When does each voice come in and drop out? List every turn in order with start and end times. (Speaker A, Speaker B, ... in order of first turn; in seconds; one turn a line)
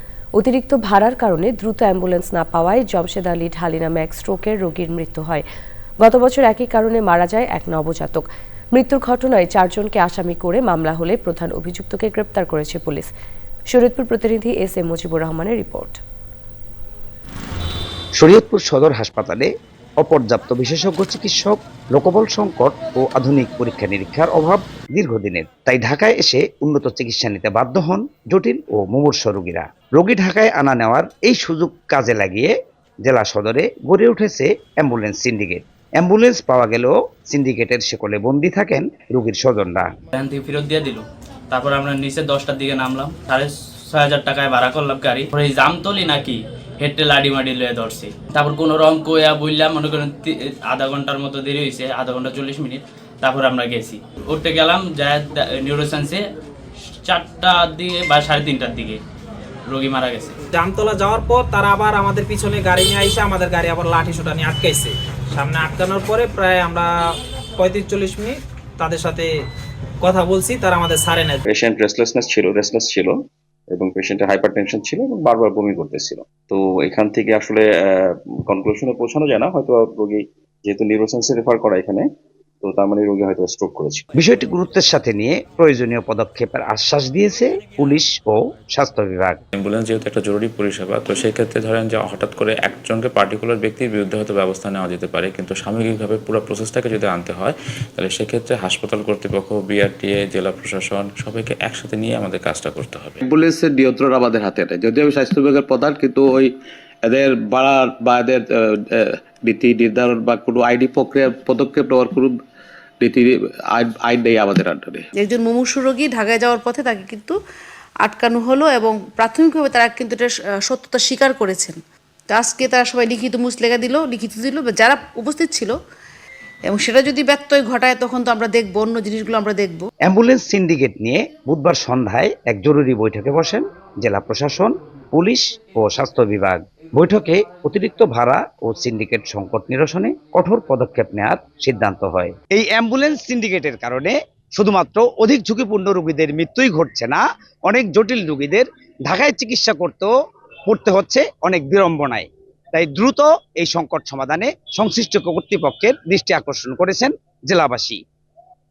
Speaker A: 0.3-5.4
Speaker A: 6.0-13.1
Speaker A: 13.7-16.0
Speaker B: 18.2-19.5
Speaker B: 20.0-39.9
Speaker C: 40.1-56.2
Speaker C: 57.0-59.0
Speaker C: 59.7-60.4
Speaker D: 60.5-66.9
Speaker D: 67.6-69.3
Speaker D: 70.0-71.4
Speaker E: 71.5-73.2
Speaker E: 73.7-82.0
Speaker E: 82.6-84.0
Speaker B: 84.2-89.4
Speaker F: 89.5-103.2
Speaker G: 103.3-106.5
Speaker G: 107.0-108.4
Speaker G: 109.5-112.3
Speaker G: 113.0-115.0
Speaker H: 115.2-117.3
Speaker H: 118.0-121.8
Speaker H: 122.3-125.7
Speaker H: 126.7-129.8
Speaker B: 130.0-150.1
Speaker B: 150.7-158.0